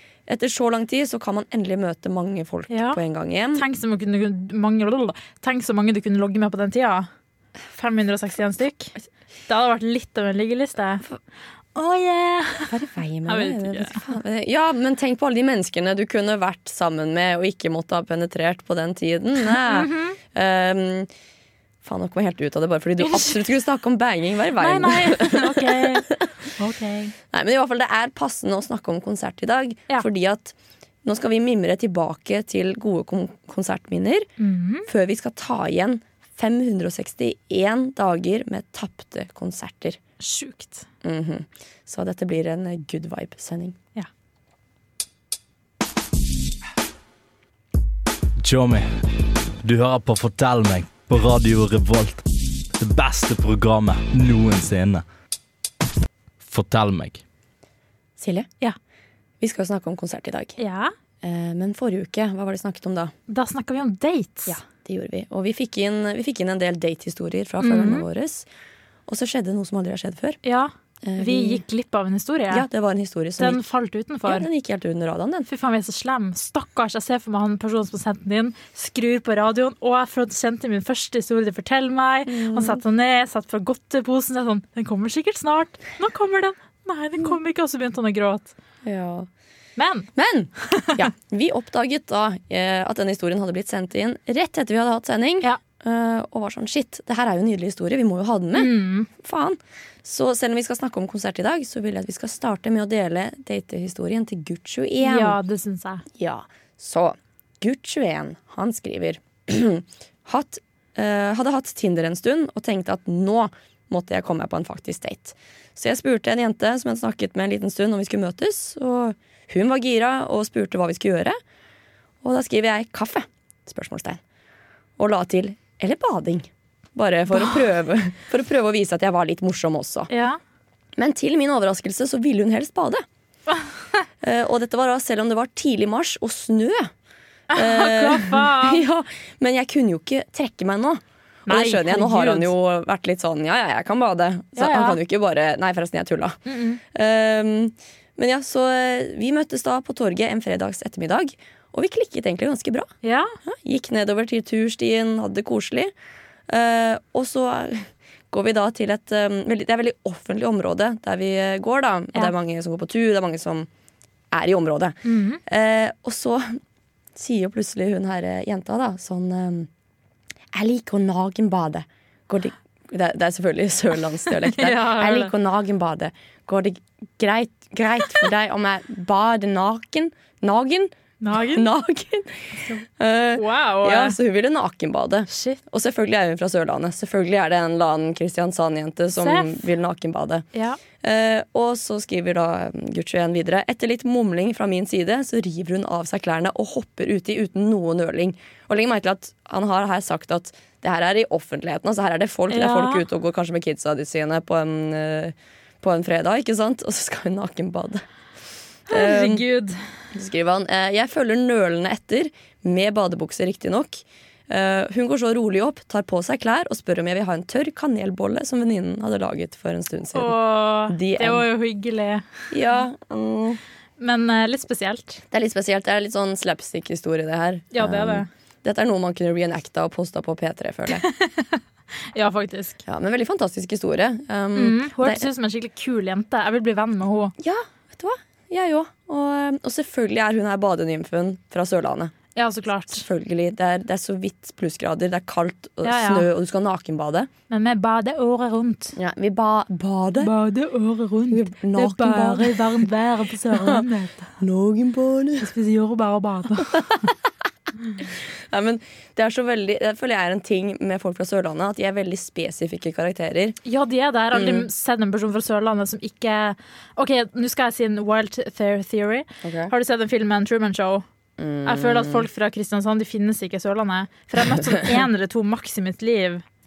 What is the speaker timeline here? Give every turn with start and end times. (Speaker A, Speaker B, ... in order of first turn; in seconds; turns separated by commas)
Speaker A: 0.3-3.6, Speaker B: 2.7-3.0, Speaker B: 3.5-7.1, Speaker B: 7.7-8.9, Speaker B: 9.5-11.0, Speaker B: 11.7-12.7, Speaker A: 12.7-21.1, Speaker B: 13.3-14.0, Speaker B: 19.6-20.2, Speaker A: 21.8-26.2, Speaker B: 23.0-23.5, Speaker B: 24.6-27.1, Speaker A: 27.3-34.3, Speaker B: 34.4-34.9, Speaker A: 34.9-40.0, Speaker B: 40.2-40.9, Speaker A: 41.0-43.8, Speaker C: 48.4-55.0, Speaker C: 56.4-57.2, Speaker A: 58.2-58.5, Speaker A: 59.4-60.5, Speaker B: 60.6-60.9, Speaker A: 61.2-63.1, Speaker B: 63.3-64.6, Speaker A: 64.5-68.5, Speaker B: 67.6-68.0, Speaker A: 69.1-70.4, Speaker B: 70.4-72.6, Speaker A: 71.0-71.6, Speaker A: 72.5-73.6, Speaker B: 73.4-74.5, Speaker A: 74.2-75.5, Speaker B: 75.5-88.5, Speaker A: 82.3-82.8, Speaker A: 88.8-89.3, Speaker B: 89.8-90.1, Speaker A: 90.2-105.4, Speaker B: 98.5-99.1, Speaker B: 105.0-106.0, Speaker A: 106.2-121.4, Speaker A: 122.2-124.2, Speaker A: 125.0-130.1, Speaker B: 130.1-130.4, Speaker A: 131.0-133.0, Speaker A: 134.2-136.9, Speaker B: 137.5-138.8, Speaker A: 137.5-146.4, Speaker B: 141.5-142.5, Speaker B: 144.6-145.0, Speaker B: 146.4-146.8, Speaker A: 146.9-152.9, Speaker B: 153.0-153.3, Speaker A: 153.4-155.9, Speaker A: 156.5-163.7, Speaker A: 164.3-166.6, Speaker B: 165.0-165.4, Speaker A: 167.2-169.7, Speaker A: 170.5-190.4, Speaker B: 174.5-175.3, Speaker B: 181.2-181.7, Speaker B: 183.3-184.2, Speaker B: 185.3-185.6, Speaker B: 189.2-189.6, Speaker A: 191.0-208.0, Speaker B: 202.5-203.0, Speaker A: 208.9-209.4, Speaker B: 208.9-209.8, Speaker A: 210.1-220.3, Speaker B: 220.1-222.2, Speaker A: 220.9-221.5, Speaker A: 222.5-223.6, Speaker B: 224.0-225.2, Speaker A: 225.3-231.0, Speaker B: 227.7-228.3, Speaker B: 231.0-231.6, Speaker B: 232.1-232.8, Speaker A: 232.8-235.2, Speaker B: 234.5-237.3, Speaker A: 237.4-242.1, Speaker B: 242.3-243.0, Speaker A: 242.9-247.3, Speaker B: 245.8-246.3, Speaker B: 247.5-248.9, Speaker A: 248.9-250.3, Speaker B: 250.2-254.3, Speaker A: 251.3-252.7, Speaker A: 253.5-253.8, Speaker A: 254.4-255.5, Speaker B: 255.4-257.1, Speaker A: 258.5-263.6, Speaker B: 263.6-271.0, Speaker A: 264.3-264.7, Speaker A: 269.4-269.7, Speaker A: 271.4-272.2, Speaker B: 271.6-276.4